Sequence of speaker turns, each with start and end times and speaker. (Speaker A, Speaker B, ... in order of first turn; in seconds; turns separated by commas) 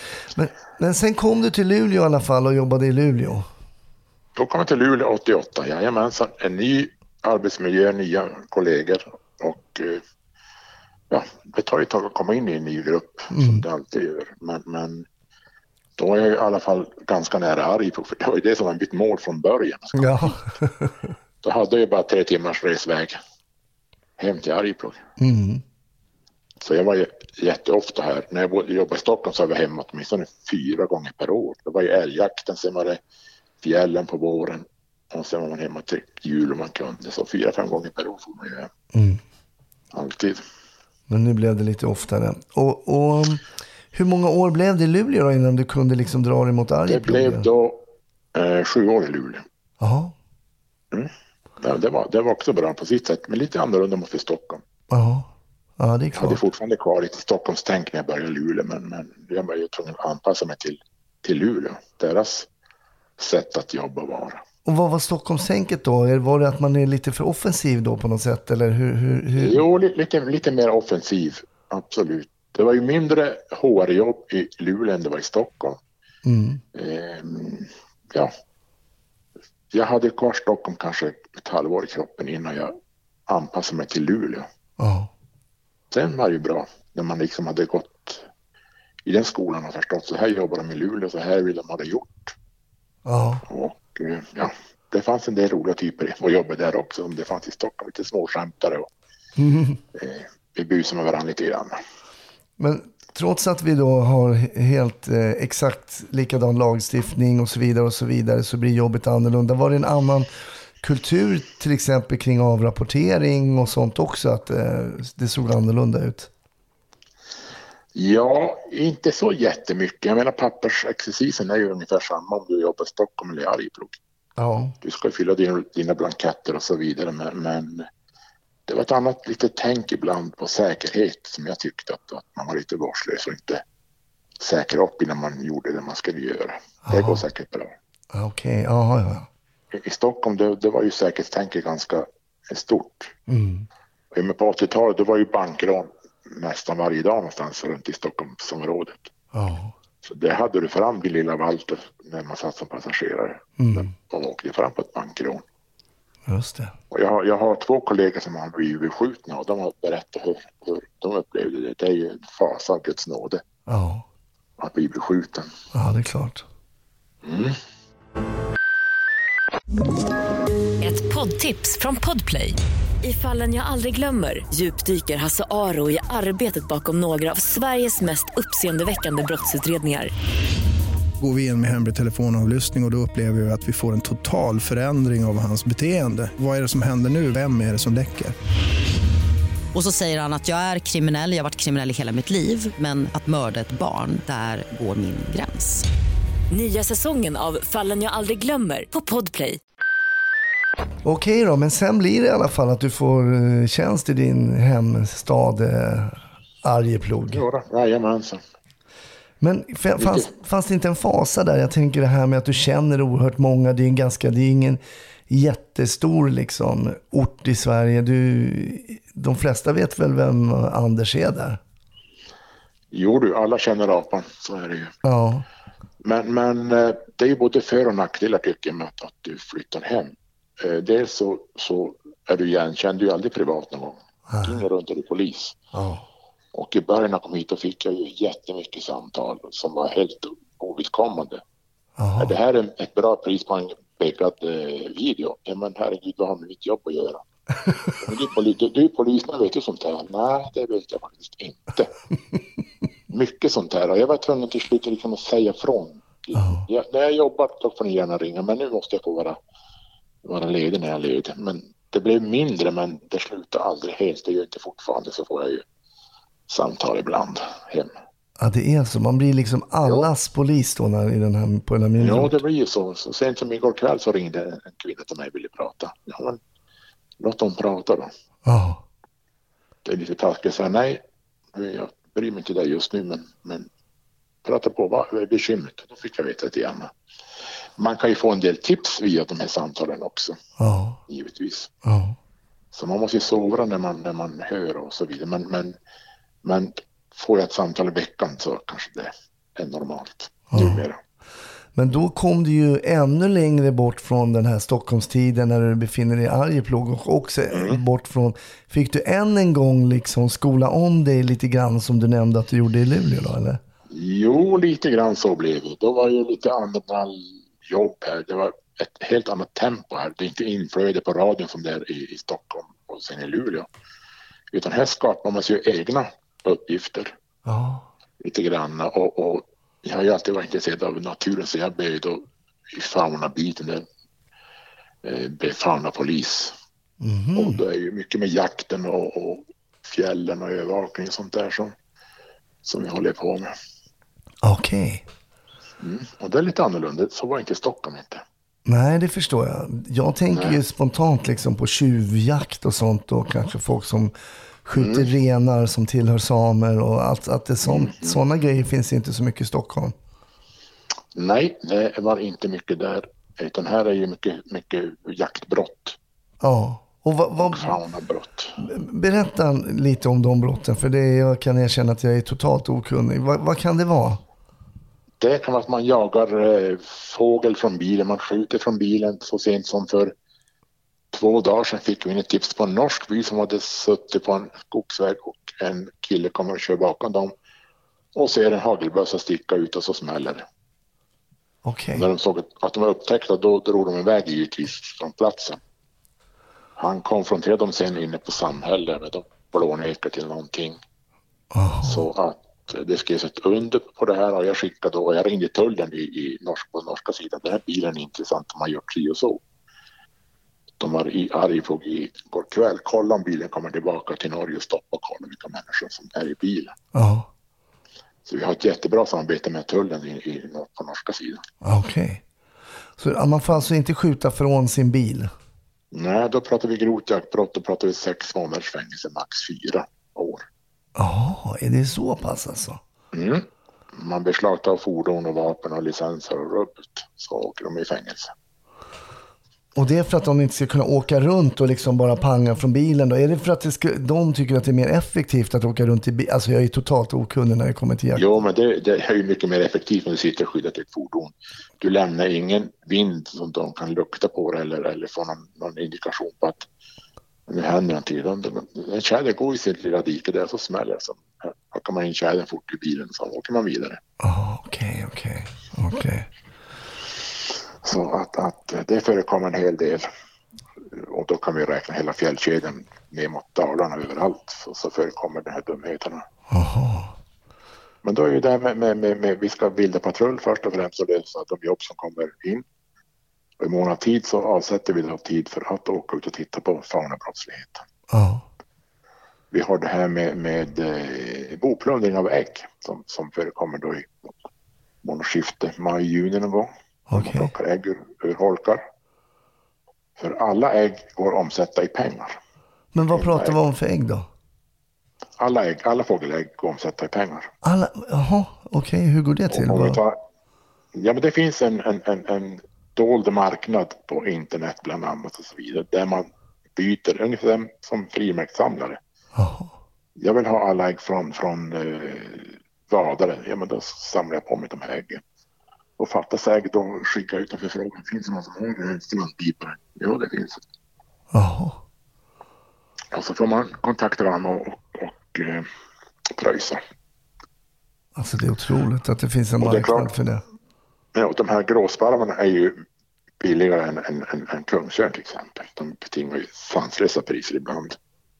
Speaker A: 0.3-3.5, Speaker B: 4.3-10.0, Speaker B: 11.1-15.1, Speaker A: 13.3-13.7, Speaker B: 16.0-20.5, Speaker A: 19.9-21.1, Speaker B: 21.4-23.2, Speaker B: 24.2-25.0, Speaker A: 25.2-25.6, Speaker B: 26.6-33.0, Speaker B: 33.6-38.7, Speaker A: 38.9-39.2, Speaker B: 39.9-40.4, Speaker A: 41.1-47.5, Speaker B: 46.9-47.8, Speaker B: 48.3-49.4, Speaker A: 49.8-50.1, Speaker B: 50.9-54.6, Speaker A: 54.9-56.4, Speaker B: 56.1-62.5, Speaker B: 63.2-64.4, Speaker A: 64.7-69.6, Speaker B: 69.3-75.8, Speaker A: 76.2-76.6, Speaker B: 76.7-78.3, Speaker B: 79.7-82.8, Speaker B: 83.3-84.5, Speaker A: 84.8-85.1, Speaker B: 85.9-88.3, Speaker B: 89.0-92.3, Speaker A: 93.0-93.4, Speaker B: 93.5-98.9, Speaker A: 99.4-99.8, Speaker B: 99.9-101.8, Speaker A: 102.6-110.3, Speaker A: 110.8-116.3, Speaker B: 117.9-124.0, Speaker A: 124.4-124.8, Speaker B: 124.8-127.9, Speaker B: 128.7-133.6, Speaker B: 134.4-137.7, Speaker A: 136.8-137.2, Speaker A: 138.1-139.3, Speaker B: 139.7-143.1, Speaker A: 143.3-143.7, Speaker B: 144.1-149.1, Speaker A: 149.3-149.7, Speaker B: 150.0-155.4, Speaker A: 153.6-153.9, Speaker A: 156.2-156.8, Speaker B: 156.9-163.4, Speaker A: 163.7-164.1, Speaker B: 164.6-165.5, Speaker A: 165.7-166.4, Speaker B: 167.2-167.6, Speaker C: 170.8-180.1, Speaker D: 181.2-188.3, Speaker E: 189.7-195.9, Speaker C: 196.5-199.6, Speaker A: 201.0-207.4, Speaker B: 207.3-208.4, Speaker A: 209.4-221.6, Speaker B: 210.0-210.3, Speaker B: 222.9-224.9, Speaker A: 225.0-225.4, Speaker B: 226.0-235.6, Speaker A: 234.3-234.6, Speaker A: 235.7-236.1, Speaker B: 236.5-241.4, Speaker A: 242.0-242.3, Speaker B: 242.2-247.2, Speaker A: 247.6-247.9, Speaker B: 248.0-251.9, Speaker B: 253.1-259.4, Speaker A: 256.3-256.6, Speaker B: 260.2-265.6, Speaker B: 266.5-267.9, Speaker A: 268.4-272.4, Speaker B: 272.0-276.4, Speaker B: 277.2-278.1, Speaker A: 278.4-278.8, Speaker B: 279.8-281.0, Speaker B: 281.5-283.7, Speaker B: 284.4-286.9, Speaker B: 287.8-290.4, Speaker A: 290.6-291.0, Speaker B: 291.1-291.7, Speaker A: 291.8-292.1, Speaker B: 292.7-295.8, Speaker B: 296.4-301.0, Speaker A: 300.5-300.8, Speaker A: 301.8-313.6, Speaker B: 307.5-307.8, Speaker B: 313.9-323.7, Speaker B: 324.5-327.1, Speaker A: 327.4-327.9, Speaker B: 328.2-333.9, Speaker B: 335.0-336.6, Speaker A: 337.0-337.6, Speaker B: 337.3-341.7, Speaker B: 342.6-343.5, Speaker A: 344.4-345.0, Speaker B: 345.8-348.2, Speaker A: 348.6-354.1, Speaker B: 350.3-350.6, Speaker A: 354.6-359.9, Speaker B: 354.7-355.1, Speaker B: 357.6-358.2, Speaker B: 361.1-366.0, Speaker A: 366.4-367.7, Speaker B: 367.4-368.6, Speaker A: 368.6-374.2, Speaker B: 375.2-380.1, Speaker B: 381.1-387.3, Speaker B: 388.1-390.4, Speaker A: 391.6-392.1, Speaker B: 391.9-395.6, Speaker B: 396.8-400.8, Speaker A: 401.5-402.1, Speaker B: 401.8-409.4, Speaker B: 410.8-416.7, Speaker A: 416.9-417.3, Speaker B: 418.2-421.4, Speaker A: 421.6-422.2, Speaker A: 423.0-425.3, Speaker B: 425.9-430.4, Speaker A: 430.9-432.8, Speaker B: 433.1-438.3, Speaker A: 439.7-448.3, Speaker B: 448.1-456.7, Speaker B: 457.5-464.0, Speaker A: 464.2-466.3, Speaker B: 467.8-470.1, Speaker B: 470.9-476.2, Speaker A: 476.5-477.1, Speaker B: 478.0-482.6, Speaker B: 483.6-487.8, Speaker A: 488.1-488.4, Speaker B: 489.5-494.3, Speaker B: 495.0-498.8, Speaker A: 497.1-497.5, Speaker B: 500.2-502.4, Speaker A: 502.9-504.3, Speaker B: 503.1-503.6, Speaker B: 505.4-507.5, Speaker A: 507.6-510.0, Speaker B: 509.5-510.2, Speaker B: 510.9-519.0, Speaker A: 519.3-519.8, Speaker B: 520.2-525.2, Speaker B: 526.0-530.6, Speaker A: 531.3-531.8, Speaker B: 533.1-535.6, Speaker B: 536.4-536.8, Speaker A: 538.1-540.4, Speaker B: 539.6-540.1, Speaker B: 541.1-542.8, Speaker B: 543.4-548.0